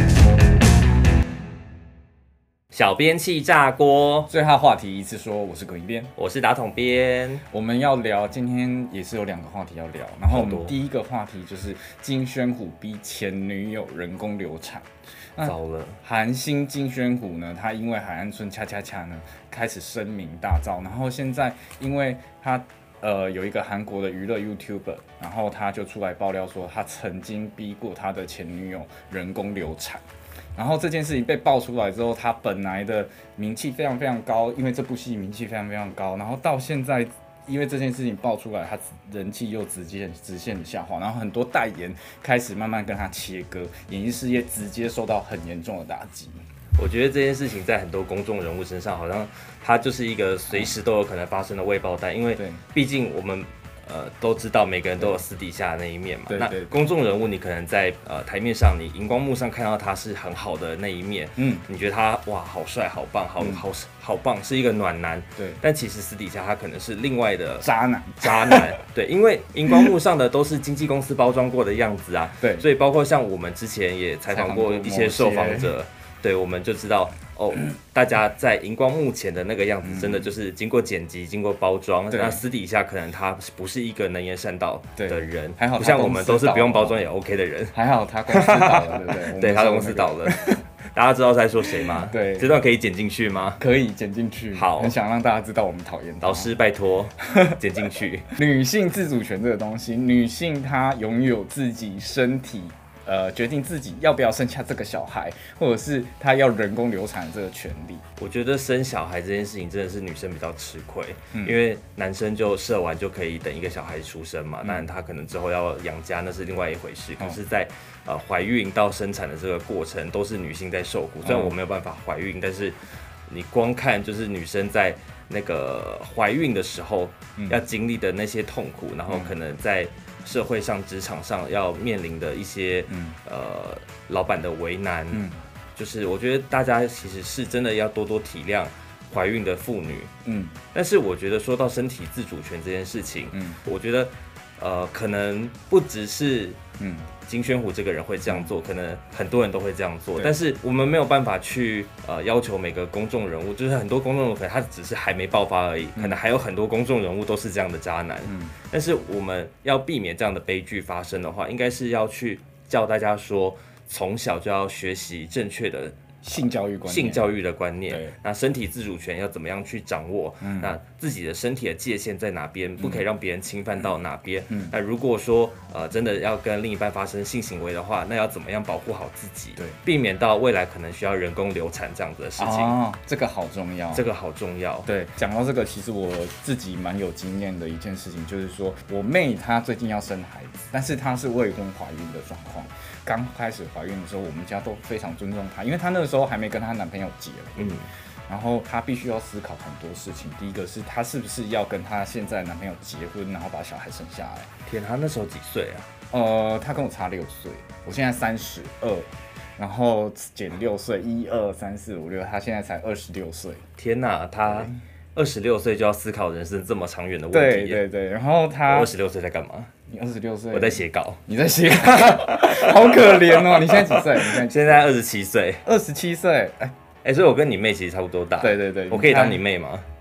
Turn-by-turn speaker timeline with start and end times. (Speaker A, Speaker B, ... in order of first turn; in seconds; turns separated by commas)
Speaker A: 2.7-4.3, Speaker B: 4.3-6.1, Speaker A: 6.2-7.4, Speaker B: 7.5-14.8, Speaker A: 10.3-10.7, Speaker B: 15.4-30.0, Speaker A: 15.4-16.0, Speaker B: 30.6-46.4, Speaker A: 46.8-87.8, Speaker B: 50.5-50.8, Speaker B: 56.3-56.9, Speaker B: 61.4-61.6, Speaker B: 63.4-63.6, Speaker B: 67.6-68.8, Speaker B: 72.4-72.7, Speaker B: 74.3-75.7, Speaker B: 79.8-80.3, Speaker B: 82.1-82.4, Speaker B: 85.0-87.0, Speaker B: 87.7-90.6, Speaker A: 88.3-93.6, Speaker B: 91.8-92.6, Speaker B: 93.6-96.5, Speaker A: 94.5-95.0, Speaker A: 96.2-98.3, Speaker B: 97.2-97.6, Speaker B: 98.3-108.0, Speaker A: 108.2-135.2, Speaker B: 111.3-111.6, Speaker B: 114.6-114.9, Speaker B: 121.2-121.5, Speaker B: 129.1-129.3, Speaker B: 132.9-133.2, Speaker B: 135.1-135.4, Speaker A: 135.7-140.1, Speaker B: 140.2-140.6, Speaker A: 140.7-146.6, Speaker B: 143.3-143.6, Speaker B: 146.8-147.1, Speaker A: 147.2-165.9, Speaker B: 158.2-158.5, Speaker B: 166.2-167.3, Speaker A: 166.8-182.8, Speaker B: 167.9-168.2, Speaker B: 170.4-170.8, Speaker B: 172.8-173.1, Speaker B: 174.5-174.8, Speaker B: 182.4-184.1, Speaker A: 183.9-184.9, Speaker B: 184.8-204.5, Speaker A: 197.6-197.9, Speaker A: 204.7-205.9, Speaker B: 206.1-213.6, Speaker A: 213.8-217.8, Speaker B: 214.5-214.7, Speaker B: 217.3-218.9, Speaker A: 218.7-219.7, Speaker B: 219.9-224.8, Speaker A: 220.5-221.2, Speaker A: 221.9-225.7, Speaker B: 225.6-226.7, Speaker A: 227.0-229.8, Speaker B: 228.4-229.4